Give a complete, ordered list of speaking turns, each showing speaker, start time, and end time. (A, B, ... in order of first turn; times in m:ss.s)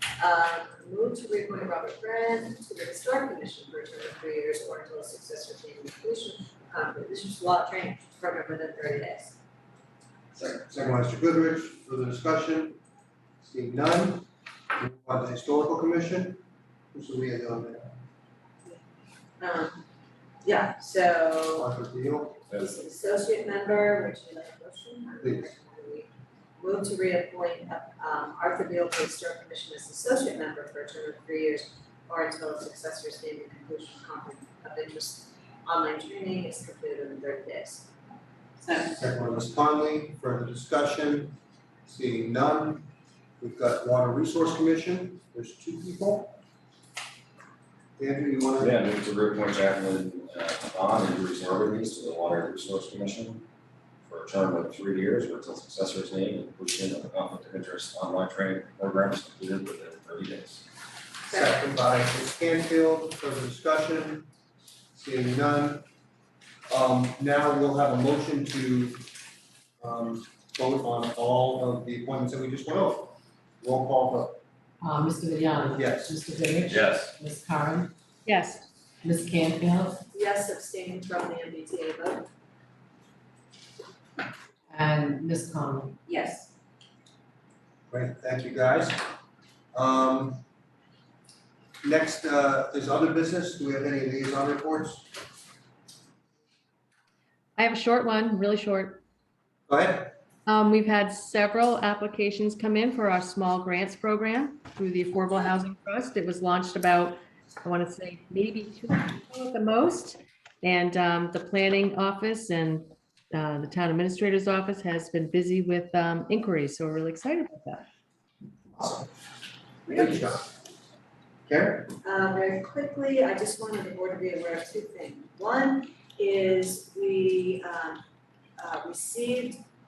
0:00.2-0:09.4 A
0:10.3-0:12.8 B
0:13.4-0:18.0 B
0:19.4-0:19.8 A
0:20.4-0:21.7 A
0:21.6-0:22.4 B
0:22.5-0:37.9 A
0:25.2-0:25.5 B
0:39.0-0:46.4 B
0:48.0-0:48.8 B
0:48.6-0:53.5 C
0:54.0-1:00.7 C
1:01.3-1:04.3 B
1:01.3-1:01.6 A
1:04.9-1:05.9 B
1:06.7-1:09.1 B
1:09.8-1:14.4 B
1:14.8-1:17.9 D
1:15.7-1:16.2 B
1:16.6-1:17.1 C
1:18.3-1:18.6 E
1:19.0-1:20.0 D
1:20.1-1:22.3 A
1:24.7-1:26.0 D
1:26.1-1:26.5 A
1:27.9-1:29.1 B
1:29.7-1:30.4 B
1:31.8-1:35.2 B
1:37.6-1:39.0 E
1:39.7-1:40.2 B
1:40.4-1:57.9 E
1:59.9-2:00.4 A
1:59.9-2:00.5 B
2:01.4-2:01.9 B
2:02.0-2:08.0 A
2:08.6-2:09.6 A